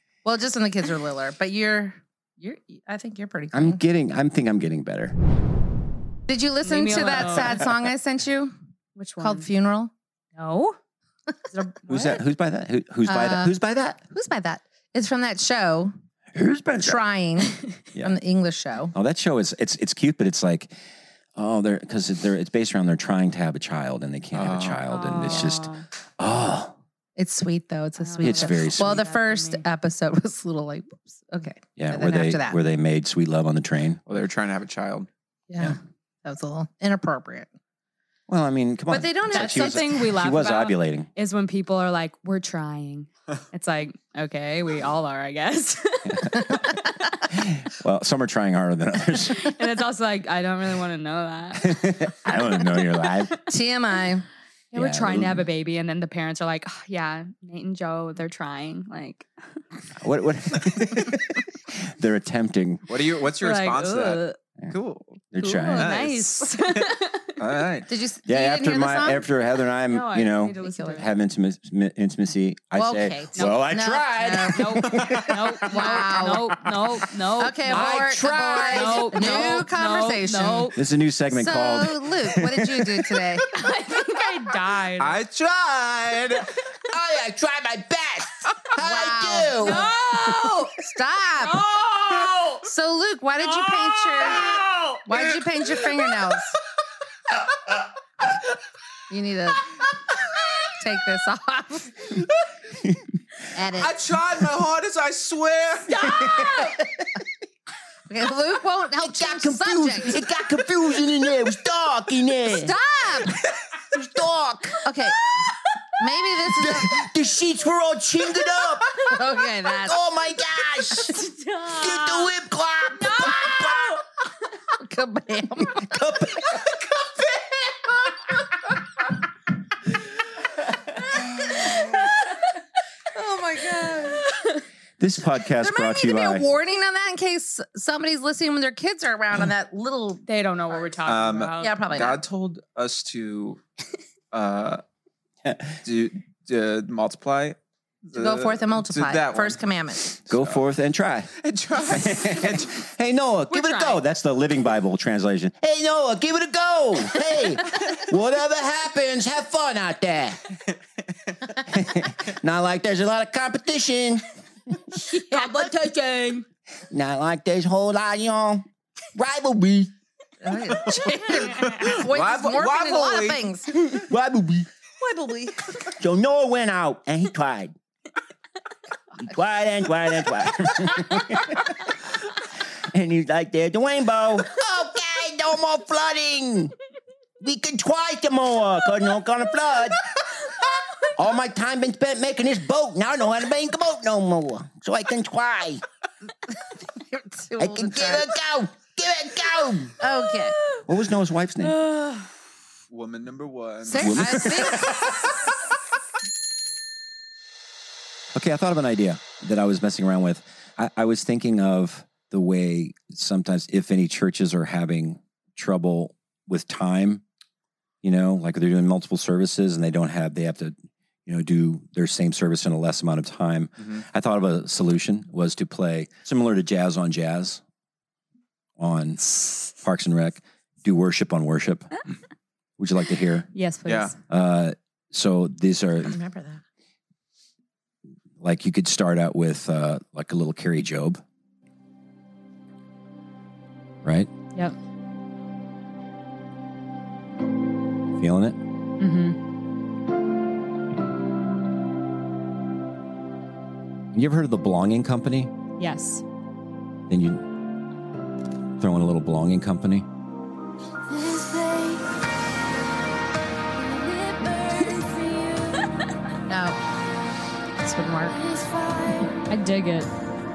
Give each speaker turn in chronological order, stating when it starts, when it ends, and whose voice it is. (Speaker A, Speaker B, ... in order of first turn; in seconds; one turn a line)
Speaker A: 0.2-3.8
Speaker B: 3.5-5.2
Speaker A: 6.3-8.5
Speaker C: 6.6-7.6
Speaker C: 9.0-9.5
Speaker A: 9.2-9.9
Speaker C: 10.4-10.8
Speaker C: 11.5-12.1
Speaker B: 11.9-14.0
Speaker A: 13.1-13.5
Speaker A: 14.1-15.9
Speaker B: 16.4-17.0
Speaker A: 16.8-18.9
Speaker B: 18.9-20.7
Speaker B: 21.4-26.8
Speaker D: 24.3-24.8
Speaker C: 24.9-25.9
Speaker A: 27.2-32.6
Speaker C: 28.0-29.6
Speaker B: 28.2-29.0
Speaker B: 31.8-34.0
Speaker D: 34.1-35.1
Speaker A: 35.5-37.5
Speaker B: 38.3-41.1
Speaker A: 38.9-39.8
Speaker C: 39.3-46.4
Speaker B: 47.3-49.4
Speaker C: 49.3-51.8
Speaker B: 51.6-53.3
Speaker A: 53.4-54.2
Speaker B: 54.7-55.5
Speaker C: 54.7-59.3
Speaker B: 60.0-61.2
Speaker B: 61.8-62.8
Speaker D: 62.9-65.2
Speaker C: 63.4-64.4
Speaker B: 65.3-66.0
Speaker C: 65.4-67.3
Speaker D: 65.8-66.5
Speaker D: 67.4-67.9
Speaker A: 67.9-69.3
Speaker B: 68.3-75.1
Speaker C: 69.9-71.1
Speaker A: 70.7-71.0
Speaker A: 72.7-74.7
Speaker C: 73.3-73.7
Speaker C: 74.5-80.8
Speaker A: 75.7-76.5
Speaker A: 77.4-80.7
Speaker B: 77.7-79.4
Speaker E: 78.1-78.5
Speaker B: 80.8-83.2
Speaker A: 81.3-83.5
Speaker C: 83.5-85.2
Speaker D: 85.0-86.5
Speaker E: 87.0-88.3
Speaker A: 88.8-91.6
Speaker E: 88.8-89.8
Speaker C: 89.6-90.7
Speaker C: 91.4-92.3
Speaker A: 92.6-94.5
Speaker D: 94.5-95.0
Speaker A: 95.1-96.5
Speaker A: 99.1-99.6
Speaker A: 100.7-101.9
Speaker A: 103.5-103.9
Speaker D: 103.8-106.1
Speaker A: 108.1-110.2
Speaker B: 109.2-112.5
Speaker E: 110.2-112.7
Speaker A: 112.5-113.3
Speaker E: 114.1-114.8
Speaker A: 114.8-115.2
Speaker A: 116.0-117.0
Speaker B: 116.6-118.7
Speaker E: 117.4-118.8
Speaker A: 119.1-120.1
Speaker E: 119.9-120.9
Speaker C: 120.9-122.3
Speaker E: 121.9-123.9
Speaker C: 123.0-124.0
Speaker A: 124.8-125.9
Speaker A: 133.1-134.2
Speaker B: 135.0-136.5
Speaker A: 135.6-140.2
Speaker C: 140.3-141.8
Speaker D: 141.1-143.6
Speaker A: 141.6-142.2
Speaker D: 144.3-144.8
Speaker B: 145.5-145.7
Speaker D: 145.8-149.6
Speaker A: 148.2-150.1
Speaker D: 150.2-150.6
Speaker B: 150.3-151.3
Speaker D: 151.4-152.7
Speaker B: 151.9-159.4
Speaker C: 153.5-154.0
Speaker E: 156.4-157.6
Speaker E: 158.5-160.3
Speaker B: 160.0-160.3
Speaker B: 161.7-164.2
Speaker E: 162.9-164.1
Speaker C: 165.0-166.4
Speaker A: 165.3-165.6
Speaker E: 166.9-168.6
Speaker E: 169.2-169.9
Speaker A: 170.4-173.7
Speaker D: 171.8-173.4
Speaker B: 174.1-174.7
Speaker A: 175.1-175.4
Speaker E: 176.0-177.7
Speaker E: 179.3-181.2
Speaker E: 183.0-186.7
Speaker E: 187.4-189.9
Speaker E: 191.2-195.8
Speaker A: 197.0-198.3
Speaker E: 197.6-199.9
Speaker A: 200.0-200.6
Speaker B: 200.9-201.8
Speaker C: 201.8-202.2
Speaker D: 202.9-204.5
Speaker A: 203.9-205.1
Speaker B: 204.0-204.7
Speaker B: 208.3-217.2
Speaker B: 218.0-227.6
Speaker D: 223.8-224.0
Speaker B: 228.8-231.9
Speaker B: 232.8-233.5
Speaker C: 233.5-234.2
Speaker D: 233.9-234.1
Speaker B: 234.3-236.2
Speaker A: 236.0-236.6
Speaker B: 238.4-241.2
Speaker B: 244.0-244.3
Speaker B: 248.2-248.6
Speaker C: 249.0-249.4
Speaker B: 254.1-255.5
Speaker C: 255.8-256.2
Speaker B: 257.1-257.4
Speaker B: 258.8-260.1
Speaker A: 266.5-266.8
Speaker A: 267.8-268.4
Speaker C: 269.5-270.1